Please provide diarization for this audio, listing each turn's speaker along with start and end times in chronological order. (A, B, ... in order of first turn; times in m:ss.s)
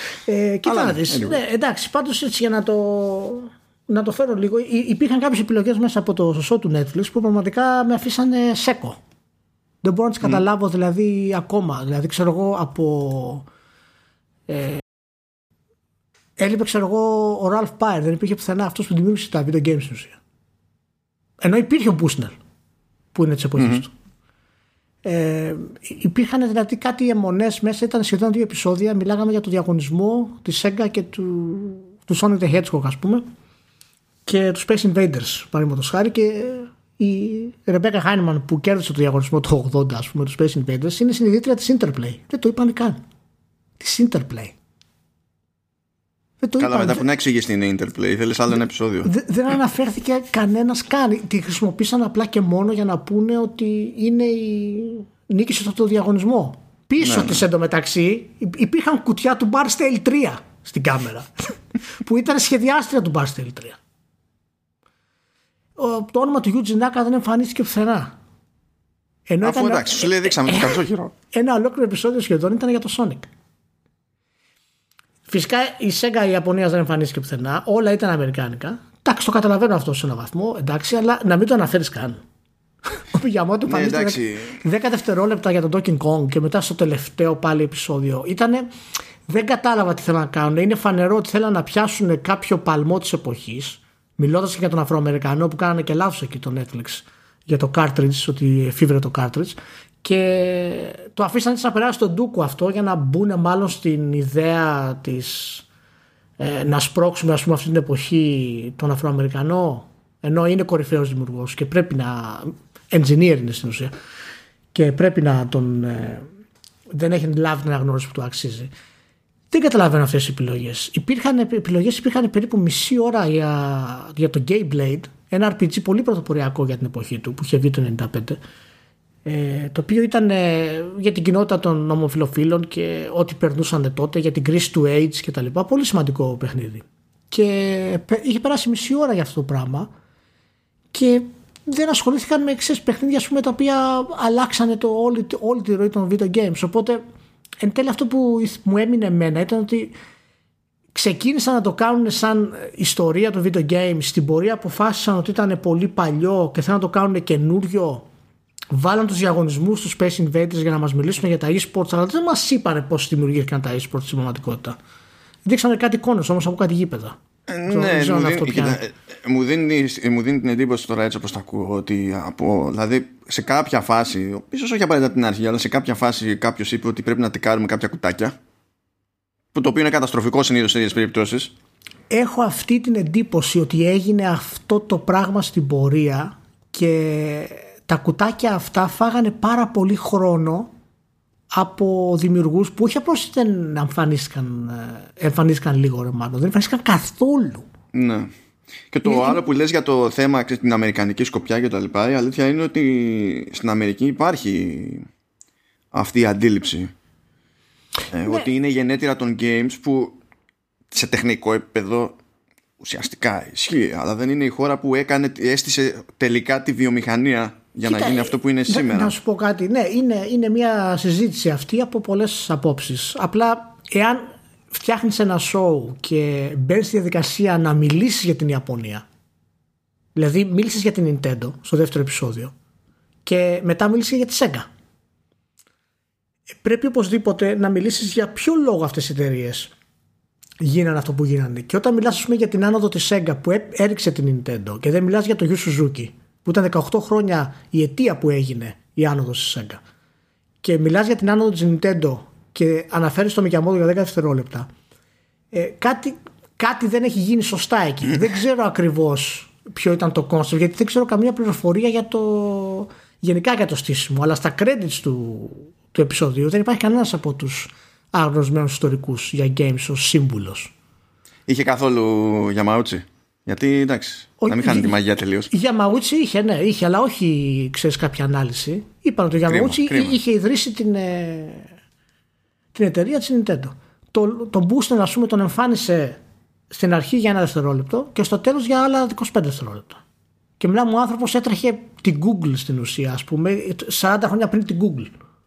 0:00.3-0:09.0 A
0:00.6-0:01.4 B
0:09.8-0:13.5 A
0:14.5-0:14.8 A
0:16.4-0:20.2 A
0:21.4-0:22.4 A
0:23.1-0:23.9 A
0:23.6-0:23.8 B
0:25.0-0:33.3 A
0:34.3-0:43.0 A
0:43.8-0:44.6 A
0:46.4-0:47.1 A
0:46.6-0:49.1 B
0:49.0-1:03.8 A
0:57.0-0:57.4 B
1:05.8-1:08.2 A
1:09.3-1:10.8 A
1:09.4-1:11.1 B
1:11.3-1:13.3 A
1:15.3-1:22.2 A
1:23.0-1:28.7 A
1:23.7-1:24.6 B
1:29.3-1:45.7 A
1:46.4-1:53.9 A
1:54.7-1:56.3 A
1:56.9-1:58.7 A
1:59.5-2:08.4 A
2:09.3-2:19.9 A
2:20.9-2:27.0 A
2:27.6-2:30.0 A
2:30.9-2:38.1 A
2:38.7-2:44.8 A
2:45.4-2:47.2 A
2:47.5-2:58.4 B
2:47.7-2:48.8 A
2:59.5-3:01.5 B
3:02.1-3:10.7 A
3:11.5-3:17.7 A
3:17.9-3:18.3 B
3:18.9-3:25.1 B
3:19.1-3:19.4 A
3:25.9-3:26.9 B
3:28.1-3:30.2 B
3:30.9-3:32.2 B
3:32.8-3:39.1 B
3:37.8-3:49.0 A
3:50.2-3:52.5 A
3:53.2-3:54.7 A
3:56.6-3:59.7 A
4:00.6-4:09.8 A
4:10.6-4:14.7 A
4:15.5-4:30.7 A
4:31.5-4:35.5 B
4:34.4-4:35.0 A
4:35.5-4:41.7 A
4:39.5-4:40.2 B
4:42.7-4:46.2 A
4:46.7-4:50.0 A
4:50.6-4:55.1 A